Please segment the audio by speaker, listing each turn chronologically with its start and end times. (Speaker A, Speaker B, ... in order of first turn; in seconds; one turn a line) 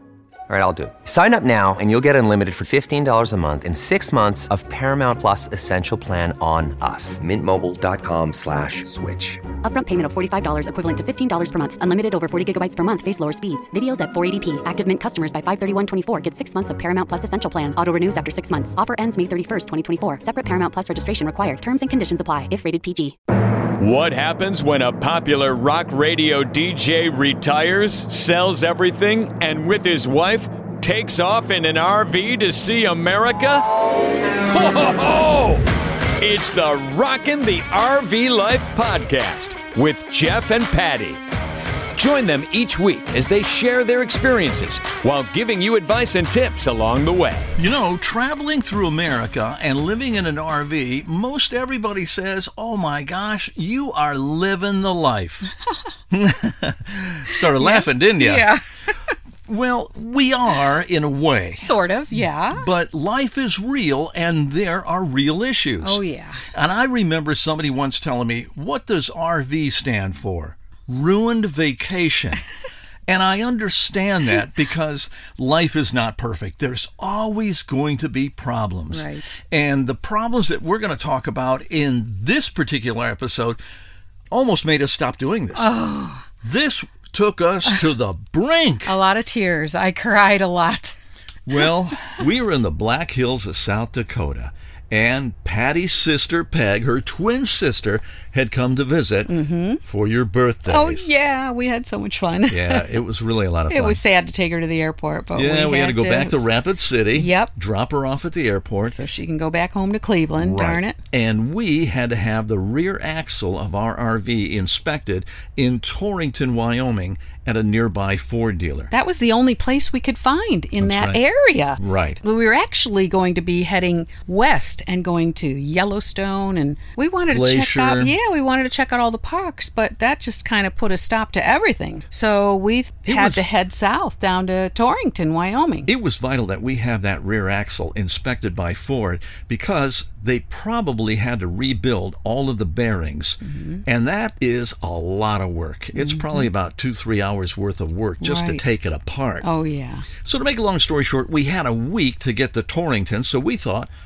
Speaker A: 0.5-9.4
Speaker B: 9.6-23.1
Speaker C: 23.8-33.6
Speaker C: 34.5-35.7
Speaker C: 36.2-41.2
Speaker C: 41.9-47.5
Speaker D: 47.5-55.5
Speaker D: 56.1-58.5
Speaker E: 57.5-58.6
Speaker D: 59.5-61.7
Speaker E: 61.6-62.6
Speaker D: 62.5-66.0
Speaker E: 65.8-66.4
Speaker D: 66.5-72.4
Speaker D: 73.1-83.6
Speaker E: 78.9-79.3
Speaker D: 84.3-85.7
Speaker E: 85.5-86.2
Speaker D: 86.4-88.9
Speaker E: 88.8-91.0
Speaker D: 91.5-99.3
Speaker E: 99.3-99.8
Speaker D: 99.8-101.1
Speaker E: 100.7-103.0
Speaker D: 102.5-104.0
Speaker E: 103.7-106.5
Speaker D: 105.3-109.0
Speaker E: 107.1-107.5
Speaker E: 108.9-111.0
Speaker D: 110.3-118.9
Speaker E: 118.9-135.9
Speaker D: 120.8-121.2
Speaker D: 121.8-122.2
Speaker D: 127.3-128.1
Speaker D: 133.1-133.4
Speaker D: 135.9-149.5
Speaker E: 143.4-143.8
Speaker E: 145.9-146.5
Speaker E: 148.2-148.8
Speaker E: 149.4-150.1
Speaker D: 150.2-153.9